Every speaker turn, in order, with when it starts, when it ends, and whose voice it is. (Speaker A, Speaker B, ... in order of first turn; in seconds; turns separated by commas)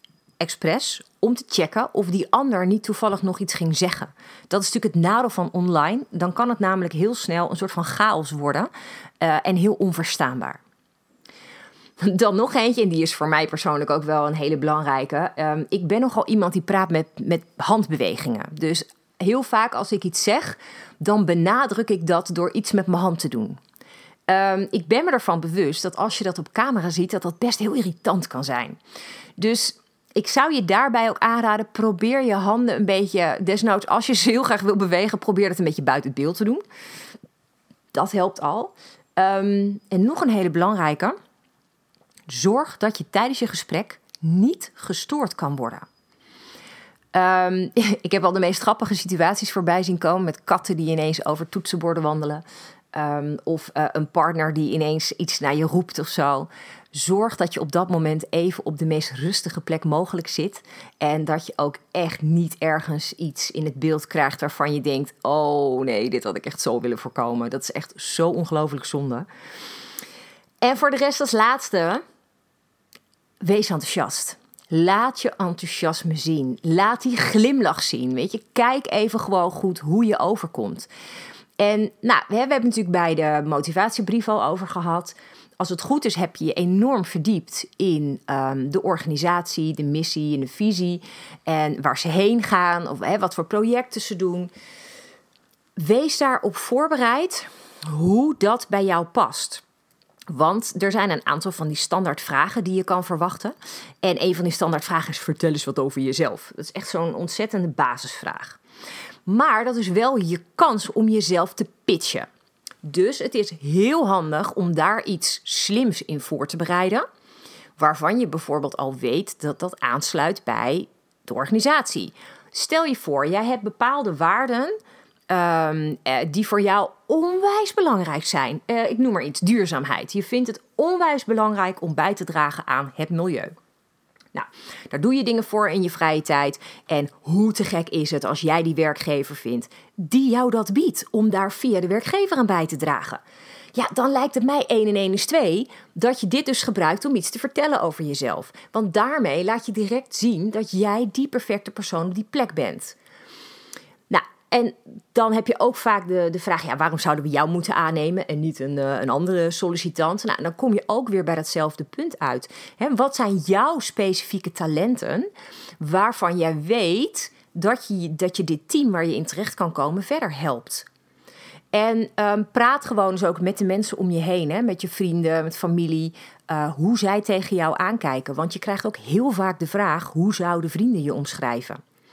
Speaker A: 0.4-8.7, Speaker A: 9.2-10.6, Speaker A: 12.0-23.6, Speaker A: 24.3-28.8, Speaker A: 29.4-36.6, Speaker A: 37.9-41.1, Speaker A: 42.3-45.9, Speaker A: 47.1-69.3, Speaker A: 70.6-72.0, Speaker A: 73.4-80.9, Speaker A: 81.6-94.5, Speaker A: 95.8-99.6, Speaker A: 100.3-108.6, Speaker A: 109.3-112.3, Speaker A: 112.8-117.0, Speaker A: 117.8-124.8, Speaker A: 125.3-133.6, Speaker A: 134.3-143.2, Speaker A: 143.7-153.0, Speaker A: 154.1-165.3, Speaker A: 165.8-170.9, Speaker A: 171.7-181.8